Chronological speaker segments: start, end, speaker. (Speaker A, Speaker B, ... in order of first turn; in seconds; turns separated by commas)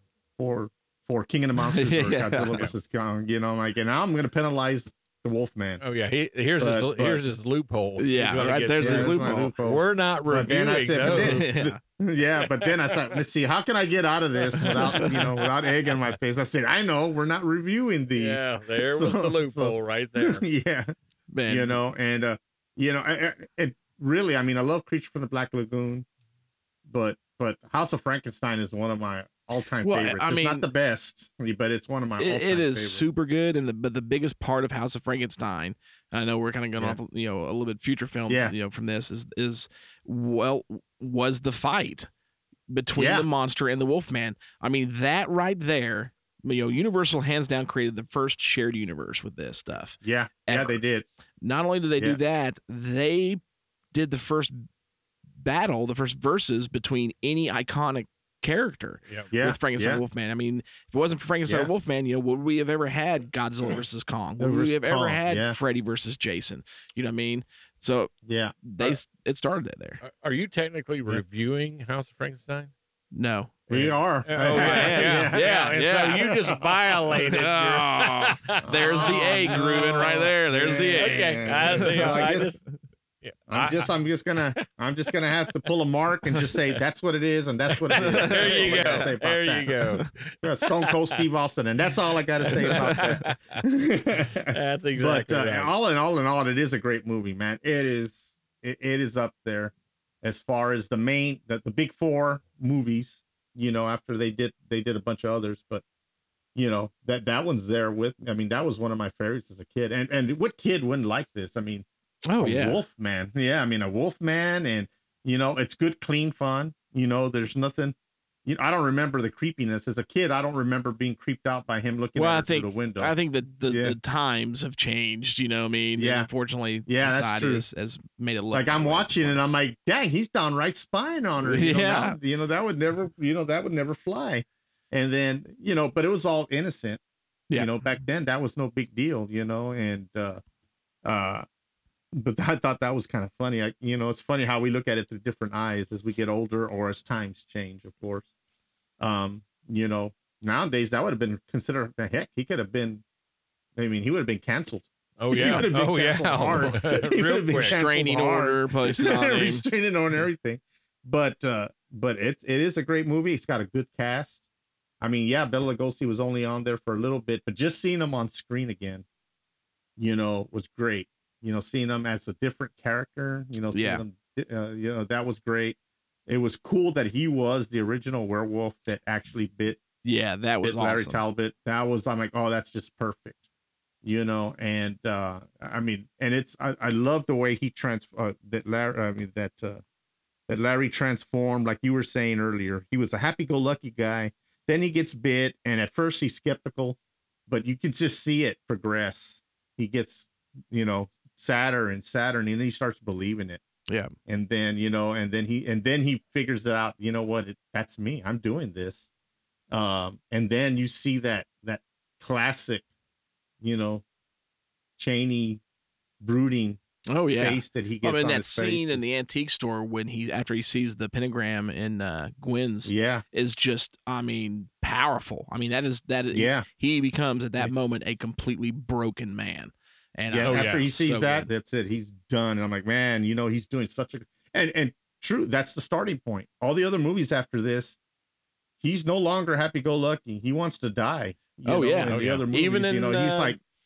Speaker A: 0.4-5.8, Speaker B: 1.7-2.6, Speaker C: 5.8-11.6, Speaker A: 6.6-7.2, Speaker B: 8.0-9.6, Speaker A: 8.8-20.9, Speaker B: 11.0-11.8, Speaker B: 14.6-15.3, Speaker C: 18.1-20.4, Speaker B: 21.3-21.8, Speaker A: 21.5-26.1, Speaker A: 26.9-33.1, Speaker B: 29.8-30.7, Speaker B: 32.2-42.1, Speaker A: 38.3-38.5, Speaker B: 42.7-50.8, Speaker A: 43.0-43.3, Speaker A: 50.0-51.1, Speaker B: 51.4-53.4, Speaker B: 53.9-54.6, Speaker B: 55.4-68.1, Speaker A: 59.3-60.0, Speaker A: 64.4-65.6, Speaker A: 68.2-69.0, Speaker B: 68.7-70.0, Speaker C: 70.0-72.7, Speaker B: 73.1-73.6, Speaker A: 73.7-75.5, Speaker C: 73.7-80.3, Speaker B: 74.4-76.4, Speaker B: 77.1-82.4, Speaker A: 78.6-82.6, Speaker C: 81.0-82.6, Speaker C: 83.2-83.9, Speaker A: 83.5-89.7, Speaker C: 87.9-91.2, Speaker B: 88.0-89.1, Speaker A: 90.4-105.8, Speaker C: 92.6-93.6, Speaker B: 92.7-93.1, Speaker C: 94.4-95.7, Speaker A: 106.5-111.9, Speaker B: 112.3-112.8, Speaker A: 112.4-123.1, Speaker B: 122.2-129.4, Speaker A: 123.7-124.0, Speaker A: 126.0-126.3, Speaker A: 126.9-127.6, Speaker A: 128.5-137.0, Speaker B: 131.4-132.2, Speaker A: 137.5-140.4, Speaker A: 141.0-141.5, Speaker A: 142.1-148.3, Speaker A: 149.0-153.0, Speaker A: 153.8-164.4, Speaker C: 155.2-157.8, Speaker B: 155.3-155.7, Speaker B: 157.6-159.7, Speaker A: 165.0-169.1, Speaker A: 170.0-179.8, Speaker B: 173.7-174.0, Speaker B: 180.0-181.2, Speaker A: 180.6-183.4, Speaker A: 184.0-189.8, Speaker A: 190.5-203.6, Speaker A: 204.3-209.1, Speaker A: 209.7-212.8, Speaker A: 213.6-214.0, Speaker A: 215.0-215.6, Speaker A: 216.2-216.8, Speaker B: 217.1-231.5, Speaker A: 217.4-219.0, Speaker A: 222.9-223.2, Speaker A: 226.3-226.7, Speaker A: 230.3-238.0, Speaker C: 230.4-230.8, Speaker A: 238.8-243.6, Speaker B: 241.7-243.6, Speaker C: 242.1-242.4